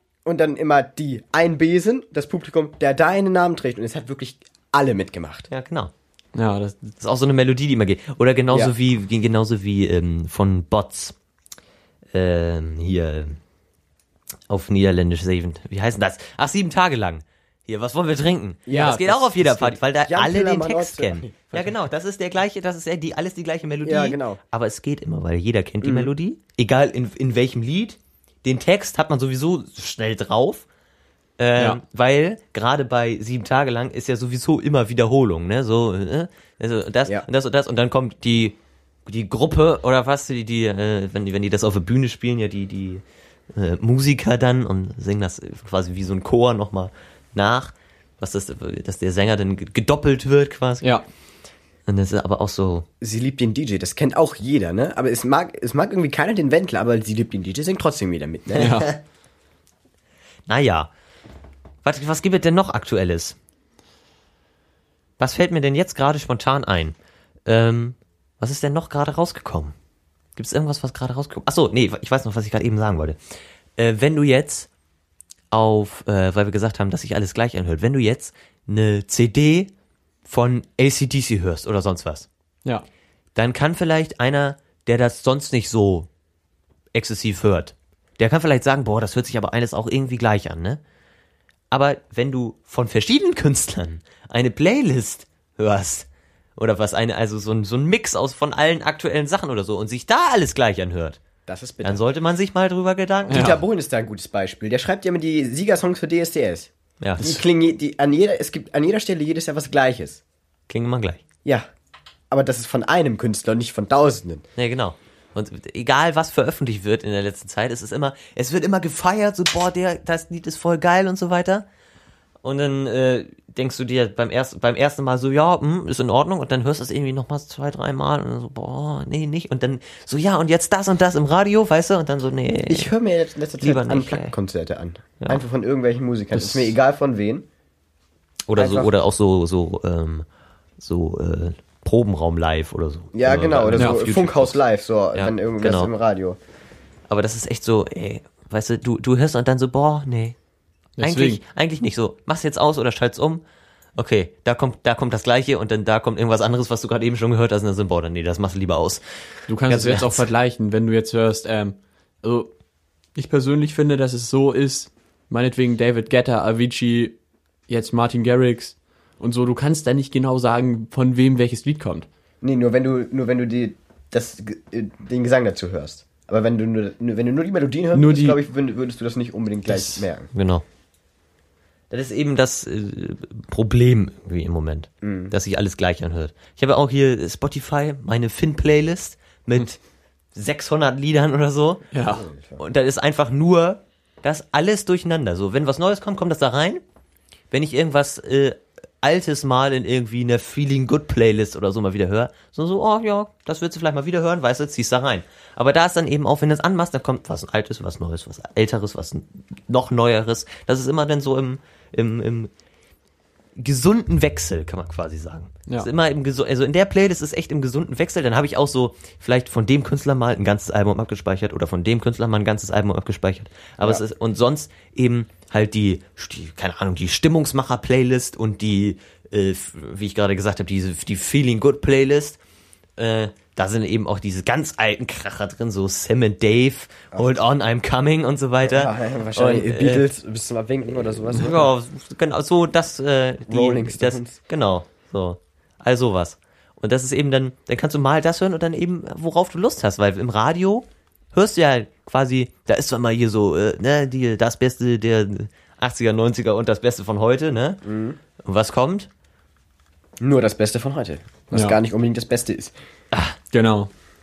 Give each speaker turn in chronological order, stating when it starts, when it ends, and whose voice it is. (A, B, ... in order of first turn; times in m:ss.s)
0:00.2-0:05.5 A
0:05.5-0:05.9 B
0:06.3-0:06.9 C
0:07.0-0:11.1 B
0:12.1-0:13.4 B
0:14.5-0:30.6 B
0:18.7-0:21.8 A
0:18.7-0:19.3 C
0:23.8-0:24.4 A
0:25.8-0:26.1 A
0:31.4-0:50.9 B
0:51.9-0:52.9 B
0:53.0-0:58.9 A
0:58.5-0:59.0 B
0:58.6-0:58.9 C
1:00.5-1:00.9 B
1:01.8-1:03.4 B
1:05.2-1:09.7 B
1:10.4-1:13.2 B
1:13.8-1:14.7 B
1:15.5-1:19.7 B
1:20.2-1:22.3 B
1:23.3-1:26.1 B
1:26.9-1:30.8 B
1:31.7-1:41.2 B
1:41.5-1:42.0 A
1:41.8-1:43.6 B
1:43.3-1:50.2 A
1:43.3-1:43.6 C
1:47.0-1:47.4 B
1:50.7-1:51.2 B
1:52.3-1:54.4 A
1:54.6-2:01.6 B
2:02.4-2:12.9 B
2:12.7-2:17.4 A
2:13.6-2:14.3 B
2:16.3-2:16.7 C
2:18.5-2:20.2 B
2:18.6-2:18.9 A
2:20.8-2:24.6 B
2:23.1-2:26.4 A
2:23.7-2:24.0 C
2:25.1-2:25.9 B
2:27.1-2:30.4 B
2:31.0-2:31.4 C
2:31.0-2:33.4 B
2:34.0-2:39.0 B
2:39.5-2:42.5 C
2:39.6-2:40.2 B
2:43.2-2:47.2 C
2:47.7-2:52.0 C
2:52.4-3:00.3 A
2:57.9-2:58.4 C
2:59.7-3:00.1 C
3:00.3-3:00.6 B
3:01.9-3:09.8 B
3:05.0-3:05.3 A
3:10.3-3:11.9 B
3:11.9-3:12.3 C
3:12.1-3:12.6 A
3:12.6-3:16.8 B
3:17.5-3:32.5 B
3:33.6-3:52.4 B
3:53.0-4:00.1 B
3:58.6-4:01.7 A
4:01.2-4:17.8 B
4:03.5-4:04.4 A
4:17.8-4:18.2 A
4:18.4-4:19.1 B
4:20.2-4:22.7 A
4:21.5-4:21.8 C
4:23.5-4:23.9 C